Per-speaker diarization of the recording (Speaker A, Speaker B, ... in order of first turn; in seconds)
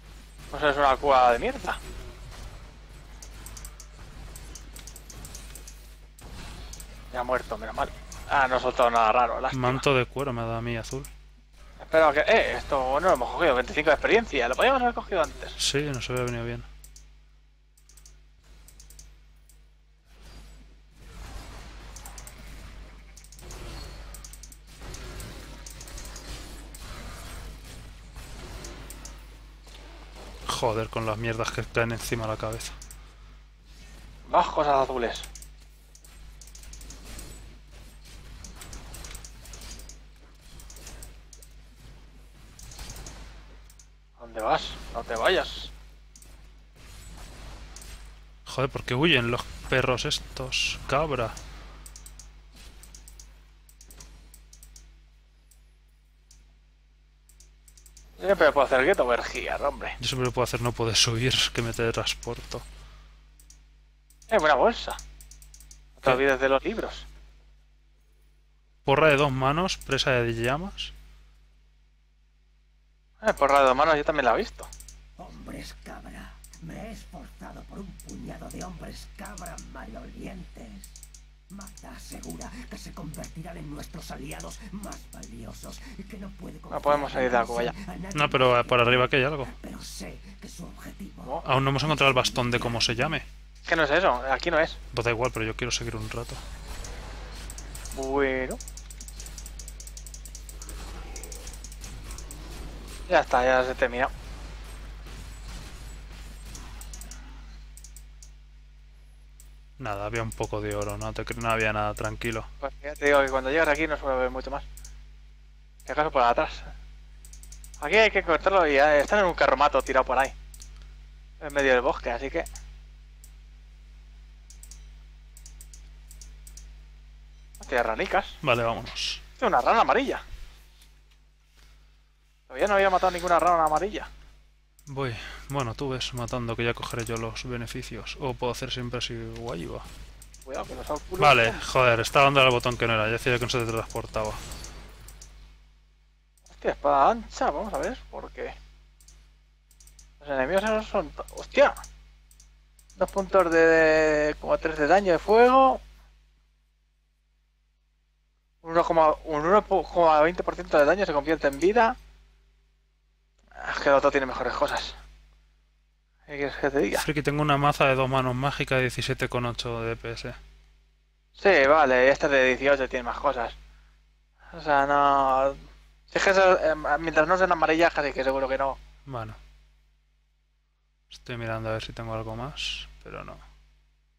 Speaker A: 0.5-1.8, 7.1-9.8, 11.8-15.6, 34.2-35.3, 44.2-45.7, 58.2-60.0, 64.3-65.0, 66.0-67.0, 73.2-74.7, 86.7-87.7, 93.7-94.8, 97.9-98.6, 103.1-104.1, 112.6-114.6, 115.8-116.7, 117.8-120.3, 121.4-122.5, 127.6-128.4, 129.4-130.2, 132.5-134.1, 140.4-141.6, 146.5-148.5, 150.2-151.7, 153.0-155.8, 158.6-161.9, 163.6-165.0, 166.3-167.0, 171.4-173.5, 174.5-178.8
Speaker B: 9.5-11.1, 15.6-16.6, 30.5-32.7, 48.5-51.3, 60.0-62.6, 68.8-70.9, 88.1-89.5, 91.4-93.2, 94.9-96.4, 109.8-112.5, 128.4-129.2, 134.9-139.8, 141.2-144.4, 166.9-170.4, 179.1-179.4, 181.1-183.4
Speaker C: 75.2-93.2